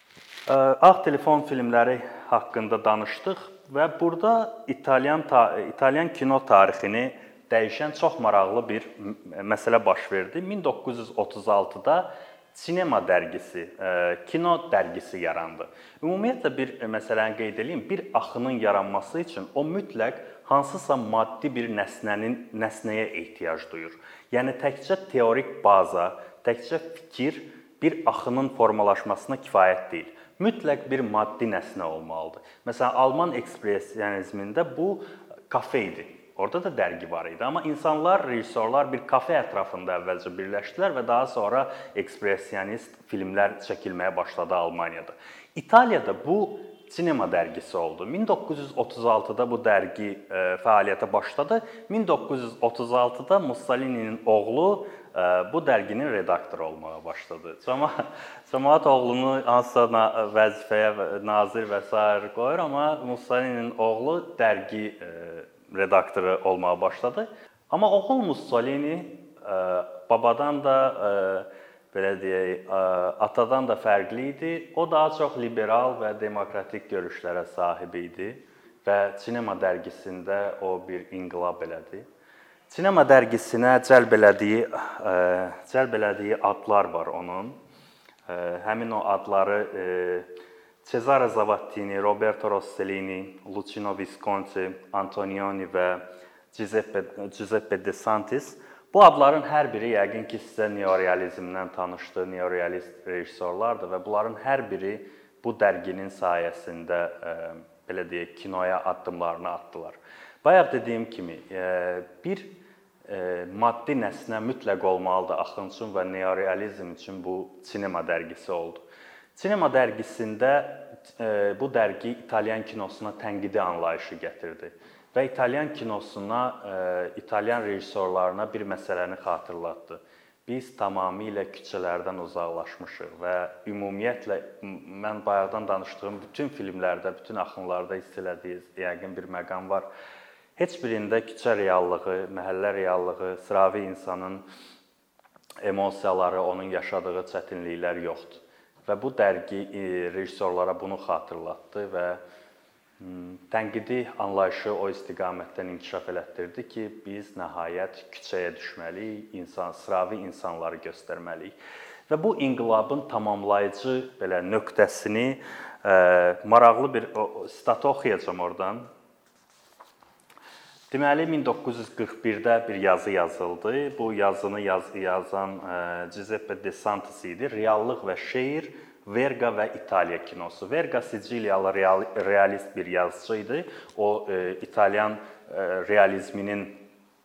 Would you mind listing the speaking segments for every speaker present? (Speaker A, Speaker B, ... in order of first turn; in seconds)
Speaker A: 0.5-82.0, 82.7-87.6, 88.3-90.3, 90.8-118.8, 119.3-139.9, 140.6-144.4, 145.6-152.2, 153.0-161.6, 162.1-168.9, 170.9-186.8